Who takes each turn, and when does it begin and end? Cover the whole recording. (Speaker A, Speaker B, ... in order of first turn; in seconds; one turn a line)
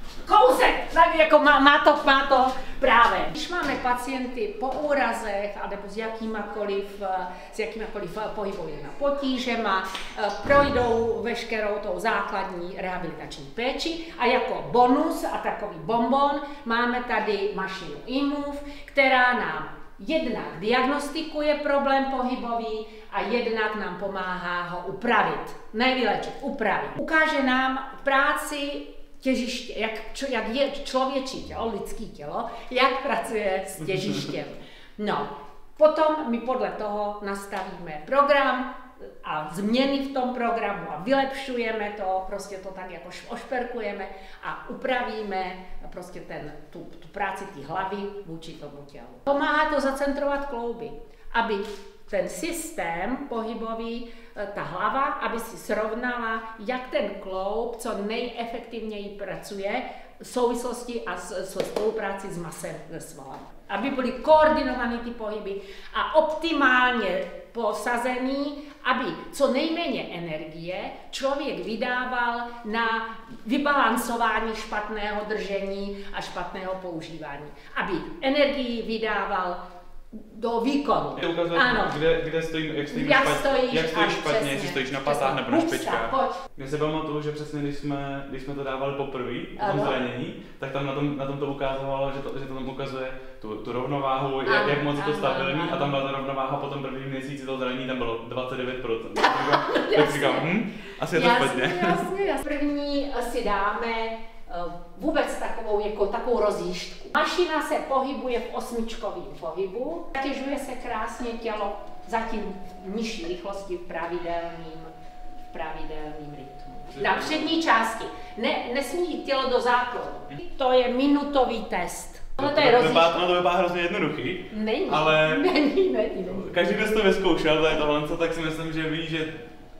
Speaker A: 0.2-82.0
Speaker B: 81.2-102.0
Speaker A: 82.9-86.4
Speaker A: 89.6-90.0
Speaker A: 94.4-96.0
Speaker A: 99.2-100.5
Speaker A: 101.1-114.9
Speaker A: 115.5-123.2
Speaker B: 116.9-117.5
Speaker B: 122.4-125.4
Speaker A: 124.5-126.5
Speaker B: 126.3-129.5